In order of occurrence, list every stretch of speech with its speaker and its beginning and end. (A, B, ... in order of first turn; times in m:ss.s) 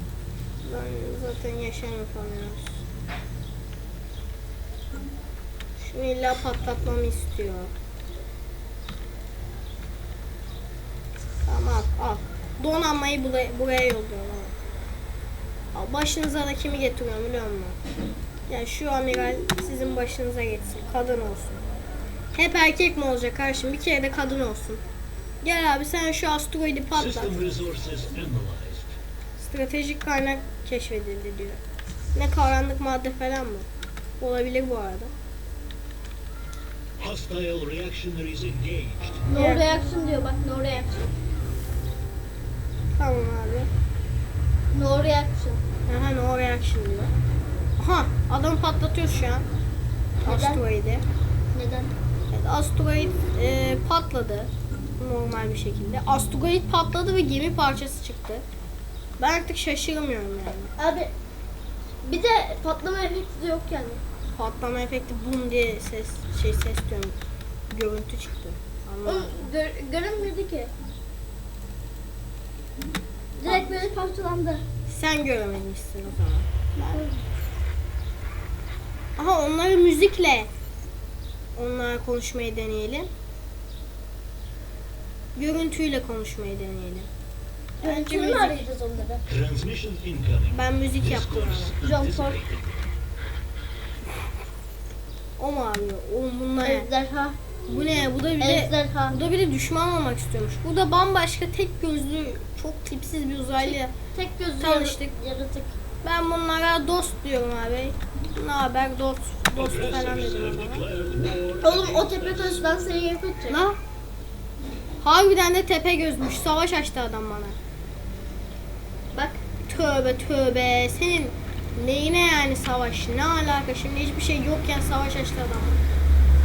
0:00.6-0:02.8 A
0:05.8-0:07.7 A
0:11.4-0:14.5 A
0:15.7-0:17.8 A
0:18.5-0:21.6 A
0:22.3-0:24.8 A
0:25.4-0:27.4 A
0:26.9-0:29.0 B
0:29.4-0:31.6 A
0:32.1-0:33.7 A
0:34.2-0:35.1 A
0:37.0-0:39.3 B
0:39.3-0:41.1 C
0:39.3-0:39.6 A
0:43.0-0:43.7 A
0:44.7-0:45.6 C
0:45.9-0:47.1 A
0:47.8-0:49.5 A
0:50.2-0:50.6 C
0:50.2-0:51.0 A
0:51.5-0:51.9 C
0:52.3-0:58.4 A
0:59.2-1:00.7 A
1:00.8-1:01.1 C
1:02.0-1:04.0 C
1:04.4-1:07.2 A
1:07.7-1:09.3 A
1:09.0-1:10.7 C
1:13.4-1:14.6 C
1:13.4-1:13.7 A
1:14.9-1:17.0 A
1:16.8-1:17.2 C
1:19.2-1:20.5 A
1:21.6-1:23.1 A
1:25.4-1:27.1 A
1:27.8-1:29.2 C
1:27.8-1:28.6 A
1:29.3-1:32.9 B
1:30.5-1:31.8 A
1:31.8-1:32.4 C
1:35.4-1:36.9 A
1:36.6-1:37.4 C
1:37.7-1:43.9 A
1:38.4-1:39.2 C
1:43.6-1:45.8 C
1:44.6-1:45.1 A
1:46.0-1:50.8 A
1:49.6-1:52.6 B
1:51.6-1:53.6 C
1:53.5-1:53.8 A
1:55.0-1:57.6 A
1:59.1-2:05.8 A